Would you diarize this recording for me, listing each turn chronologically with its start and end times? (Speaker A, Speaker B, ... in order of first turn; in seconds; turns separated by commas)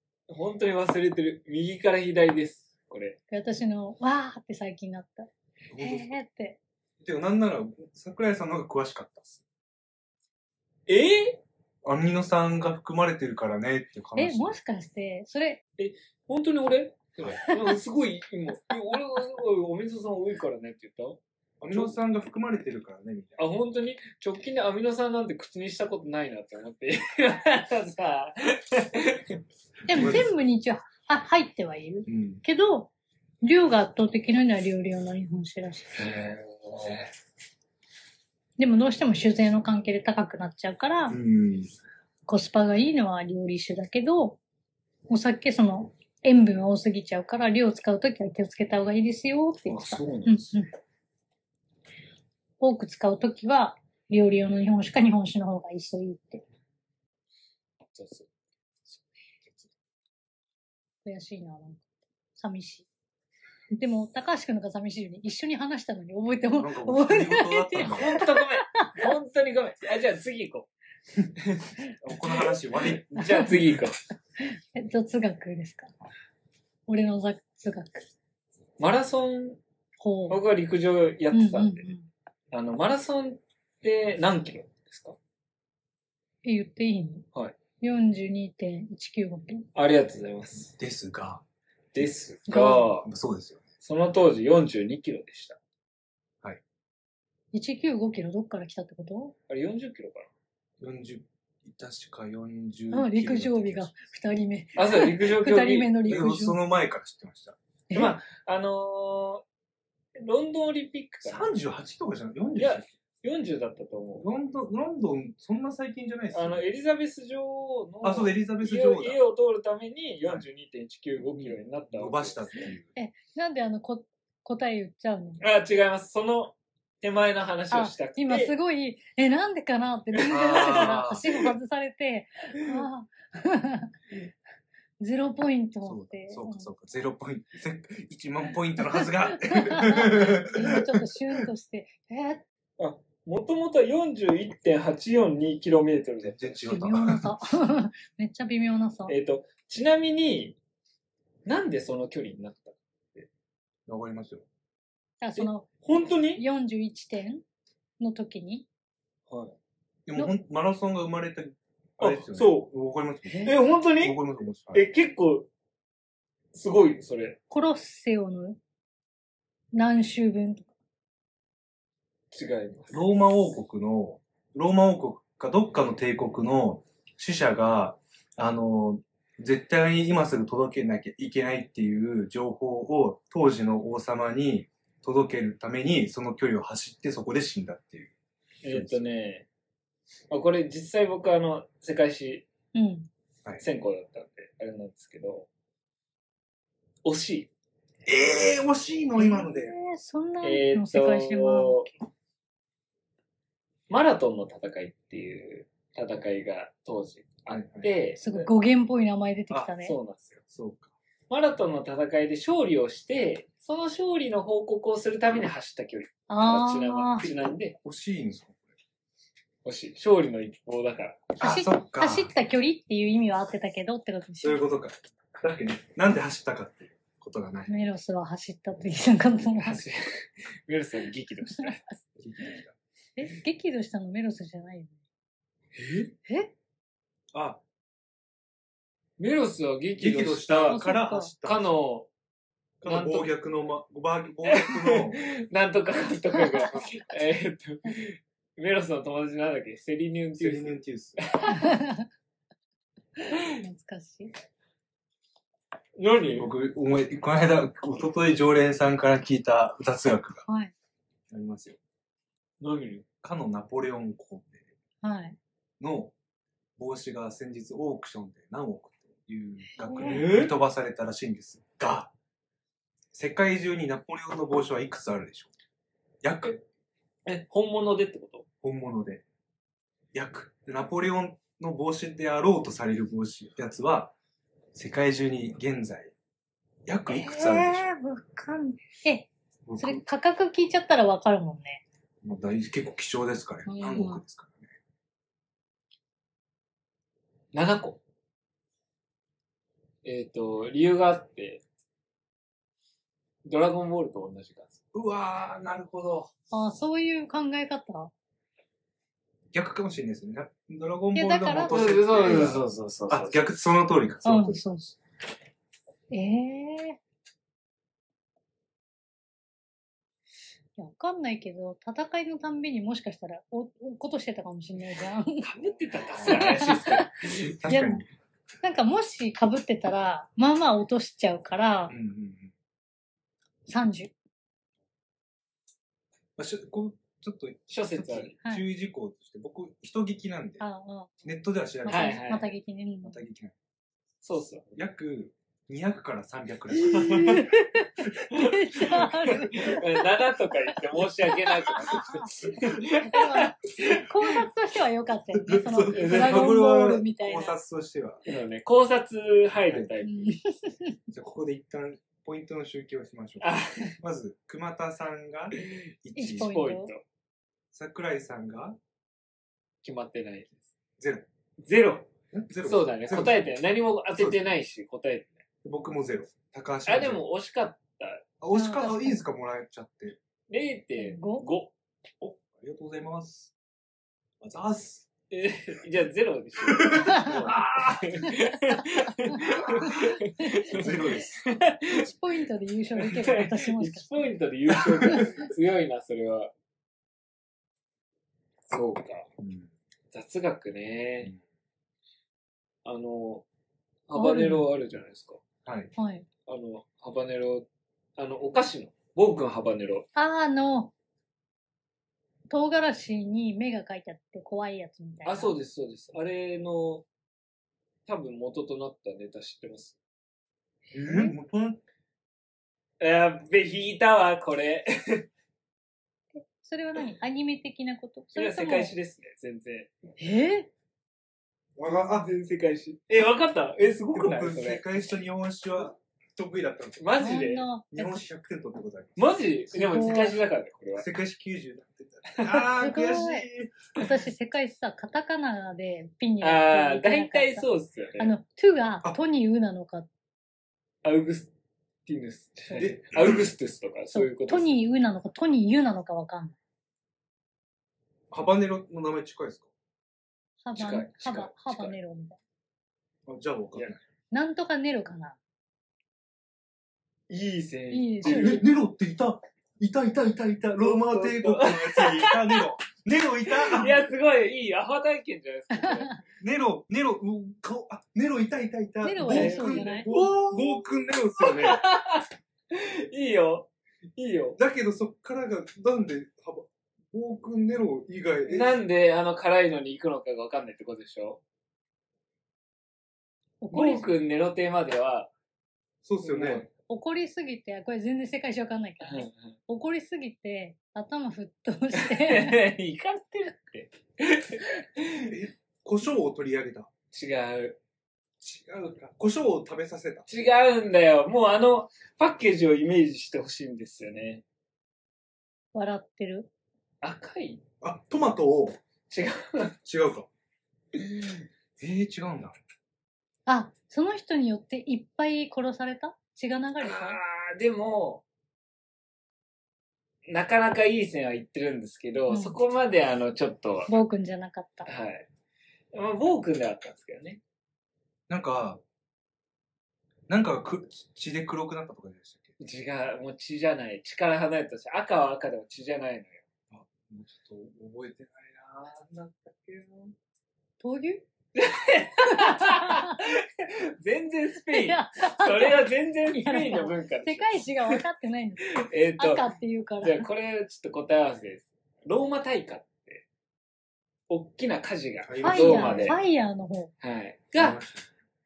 Speaker A: 0.3-3.2, Speaker B: 3.3-6.6, Speaker C: 5.7-6.1, Speaker C: 7.0-9.4, Speaker A: 10.9-11.4, Speaker C: 11.8-14.6, Speaker B: 14.2-15.6, Speaker A: 15.8-21.9, Speaker C: 21.6-23.4, Speaker A: 23.4-29.4, Speaker B: 29.9-32.9, Speaker C: 29.9-30.2, Speaker C: 32.1-32.4, Speaker B: 33.4-36.0, Speaker A: 35.9-37.1, Speaker B: 38.6-41.2, Speaker C: 41.1-41.7, Speaker B: 42.3-44.4, Speaker B: 45.1-50.7, Speaker A: 49.7-50.5, Speaker B: 52.6-56.4, Speaker A: 57.9-58.3, Speaker B: 61.0-62.9, Speaker B: 63.8-69.1, Speaker C: 66.5-68.2, Speaker A: 67.8-70.7, Speaker A: 71.4-71.7, Speaker C: 72.0-73.1, Speaker A: 72.8-74.0, Speaker B: 73.2-73.5, Speaker B: 74.4-75.9, Speaker B: 76.9-77.9, Speaker A: 78.8-79.6, Speaker B: 80.0-80.4, Speaker A: 80.3-81.9, Speaker B: 81.3-82.1, Speaker A: 82.5-85.2, Speaker B: 86.4-87.2, Speaker B: 87.8-89.7, Speaker A: 89.7-90.7, Speaker C: 90.8-91.4, Speaker A: 91.9-93.1, Speaker B: 92.5-92.9, Speaker C: 92.9-93.6, Speaker A: 93.8-95.6, Speaker B: 97.5-99.3, Speaker A: 99.5-100.3, Speaker C: 100.8-104.0, Speaker B: 102.9-106.6, Speaker A: 104.8-106.0, Speaker C: 106.0-107.6, Speaker B: 107.9-108.2, Speaker A: 107.9-109.4, Speaker A: 110.2-111.5, Speaker C: 111.2-112.9, Speaker A: 112.6-114.3, Speaker C: 114.2-116.7, Speaker A: 116.3-122.6, Speaker C: 118.0-119.2, Speaker C: 121.2-122.9, Speaker B: 123.0-125.4, Speaker A: 125.4-128.5, Speaker B: 127.7-133.9, Speaker A: 130.2-131.0, Speaker C: 130.3-131.4, Speaker B: 135.0-136.7, Speaker C: 135.8-140.9, Speaker B: 139.3-142.4, Speaker A: 142.8-146.6, Speaker C: 146.2-147.3, Speaker B: 146.7-149.1, Speaker A: 149.1-150.6, Speaker A: 151.4-153.3, Speaker C: 153.9-154.4, Speaker B: 155.2-155.7, Speaker A: 155.4-156.4, Speaker B: 156.3-157.4, Speaker B: 158.0-158.7, Speaker A: 159.3-159.6, Speaker C: 160.1-164.9, Speaker A: 162.0-162.7, Speaker A: 163.4-164.2, Speaker A: 164.7-165.5, Speaker A: 166.5-167.4, Speaker B: 167.5-168.6, Speaker B: 169.7-170.7, Speaker A: 172.3-173.0, Speaker C: 172.9-188.1, Speaker A: 188.6-189.4, Speaker C: 188.7-189.0, Speaker A: 190.3-192.4, Speaker B: 192.7-193.1, Speaker A: 193.6-195.5, Speaker A: 197.0-197.5, Speaker C: 198.1-199.7, Speaker B: 199.2-201.9, Speaker A: 200.4-201.9, Speaker A: 203.9-208.5, Speaker C: 207.5-207.9, Speaker B: 208.2-209.9, Speaker A: 209.8-210.4, Speaker C: 210.5-210.9, Speaker A: 211.3-217.8, Speaker B: 216.3-217.3, Speaker C: 217.8-218.7, Speaker A: 219.6-221.3, Speaker C: 221.4-222.3, Speaker B: 221.4-224.6, Speaker C: 224.4-227.7, Speaker B: 227.7-229.8, Speaker A: 229.6-231.8, Speaker C: 232.2-232.7, Speaker B: 233.2-235.0, Speaker A: 235.8-236.1, Speaker B: 236.2-236.5, Speaker C: 237.3-237.6, Speaker A: 239.2-240.8, Speaker C: 240.0-241.8, Speaker B: 240.7-241.3, Speaker A: 241.4-242.1, Speaker C: 242.8-245.3, Speaker A: 242.8-243.3, Speaker A: 244.5-251.7, Speaker B: 246.4-246.7, Speaker C: 250.3-251.2, Speaker B: 251.5-252.1, Speaker B: 253.3-254.3, Speaker A: 256.0-256.5, Speaker C: 256.3-260.4, Speaker B: 260.4-260.7, Speaker C: 261.3-261.8, Speaker A: 262.6-263.0, Speaker C: 263.2-264.6, Speaker B: 265.0-265.4, Speaker C: 265.8-266.1, Speaker C: 266.8-272.1, Speaker B: 269.7-270.2, Speaker A: 270.0-270.5, Speaker C: 273.1-275.5, Speaker C: 276.2-276.6, Speaker A: 277.2-278.4, Speaker C: 278.6-279.2, Speaker C: 280.1-284.1, Speaker C: 284.7-286.1, Speaker C: 286.9-287.9, Speaker B: 287.1-291.8, Speaker C: 289.6-290.0, Speaker C: 292.2-294.7, Speaker B: 293.6-294.2, Speaker A: 297.5-298.0, Speaker A: 300.0-301.6, Speaker A: 303.4-304.8, Speaker C: 304.9-306.3, Speaker B: 306.5-308.1, Speaker C: 309.5-314.6, Speaker B: 311.1-311.8, Speaker A: 311.7-313.5, Speaker B: 314.2-314.9, Speaker B: 316.1-317.0, Speaker B: 320.8-325.5, Speaker A: 325.4-327.2, Speaker C: 326.2-326.5, Speaker B: 326.2-327.1, Speaker C: 327.4-328.1, Speaker B: 327.6-328.0, Speaker B: 328.6-331.9, Speaker C: 331.9-332.5, Speaker B: 333.7-334.1, Speaker C: 336.4-340.6, Speaker A: 337.7-338.3, Speaker B: 340.6-341.2, Speaker C: 341.2-342.2, Speaker B: 341.8-343.2, Speaker A: 341.9-342.5, Speaker C: 343.0-343.5, Speaker A: 344.2-344.7, Speaker C: 344.7-347.5, Speaker A: 346.8-347.5, Speaker B: 347.1-350.0, Speaker A: 348.3-354.3, Speaker C: 348.8-349.4, Speaker B: 351.6-352.3, Speaker C: 351.7-352.5, Speaker B: 353.0-357.6, Speaker C: 355.4-358.2, Speaker A: 355.9-356.6, Speaker A: 358.2-360.4, Speaker B: 360.0-361.0, Speaker C: 361.1-366.5, Speaker A: 363.4-363.9, Speaker B: 366.1-366.9, Speaker A: 366.3-367.0, Speaker C: 367.7-368.8, Speaker A: 369.8-370.6, Speaker C: 371.0-371.3, Speaker A: 371.6-372.1, Speaker C: 372.3-373.4, Speaker A: 372.6-375.4, Speaker C: 374.1-374.4, Speaker C: 375.6-377.2, Speaker A: 376.9-378.2, Speaker C: 378.4-380.2, Speaker B: 378.5-379.2, Speaker A: 380.5-381.7, Speaker B: 380.9-381.4, Speaker C: 382.2-383.5, Speaker C: 384.4-385.1, Speaker A: 385.3-392.1, Speaker C: 386.6-388.3, Speaker B: 387.1-387.4, Speaker B: 389.2-391.3, Speaker C: 389.6-390.0, Speaker C: 390.7-391.4, Speaker B: 391.9-395.3, Speaker A: 393.0-396.5, Speaker C: 394.8-395.3, Speaker A: 398.7-399.3, Speaker C: 399.4-399.7, Speaker A: 400.1-401.3, Speaker A: 402.8-403.4, Speaker A: 404.1-405.4, Speaker B: 404.1-404.6, Speaker C: 405.6-405.9, Speaker B: 406.0-406.2, Speaker A: 406.4-410.1, Speaker B: 410.1-410.9, Speaker B: 412.5-415.5, Speaker A: 415.2-417.0, Speaker A: 418.1-420.0, Speaker C: 420.9-421.8, Speaker B: 421.0-421.3, Speaker A: 423.0-425.3, Speaker B: 426.3-428.9, Speaker A: 428.3-430.0, Speaker B: 430.2-430.7, Speaker C: 431.8-432.3, Speaker A: 431.8-434.8, Speaker C: 434.1-437.1, Speaker A: 437.0-437.6, Speaker B: 437.2-438.2, Speaker C: 437.9-439.4, Speaker A: 439.2-441.1, Speaker B: 439.7-440.4, Speaker C: 441.0-443.9, Speaker B: 442.8-447.6, Speaker A: 446.4-448.3, Speaker B: 448.2-450.1, Speaker A: 451.0-451.5, Speaker A: 452.1-454.7, Speaker C: 452.8-453.5, Speaker B: 454.1-456.6, Speaker C: 458.3-459.7, Speaker B: 460.6-462.4, Speaker A: 460.8-461.9, Speaker C: 463.2-464.0, Speaker B: 464.3-465.4, Speaker A: 467.3-468.6, Speaker B: 467.9-468.6, Speaker C: 468.2-474.1, Speaker A: 470.8-472.6, Speaker A: 473.5-476.2, Speaker C: 476.4-481.8, Speaker B: 479.0-480.1, Speaker A: 479.2-484.6, Speaker C: 484.6-488.8, Speaker A: 488.4-491.4, Speaker B: 493.6-494.1, Speaker A: 493.7-495.3, Speaker C: 496.0-496.7, Speaker A: 496.2-496.7, Speaker B: 496.9-502.6, Speaker A: 499.0-499.6, Speaker A: 501.9-505.3, Speaker C: 505.2-506.9, Speaker A: 507.1-507.8, Speaker C: 508.4-510.3, Speaker A: 510.3-514.4, Speaker B: 515.7-516.5, Speaker A: 517.0-517.6, Speaker C: 517.8-518.8, Speaker A: 519.1-519.8, Speaker C: 519.8-520.3, Speaker C: 521.8-522.6, Speaker B: 523.5-527.2, Speaker A: 526.8-528.2, Speaker A: 530.3-533.9, Speaker B: 532.3-532.6, Speaker B: 533.9-534.9, Speaker A: 534.9-535.3, Speaker A: 535.9-537.4, Speaker C: 538.3-538.8, Speaker C: 540.3-542.5, Speaker A: 542.6-546.4, Speaker C: 546.7-550.1, Speaker B: 550.8-551.2, Speaker A: 551.5-558.0, Speaker B: 552.3-553.2, Speaker B: 554.7-560.2, Speaker A: 558.7-559.5, Speaker A: 560.0-563.2, Speaker A: 564.3-566.2, Speaker C: 565.2-566.2, Speaker B: 565.4-566.9, Speaker A: 567.0-567.8, Speaker C: 567.5-568.1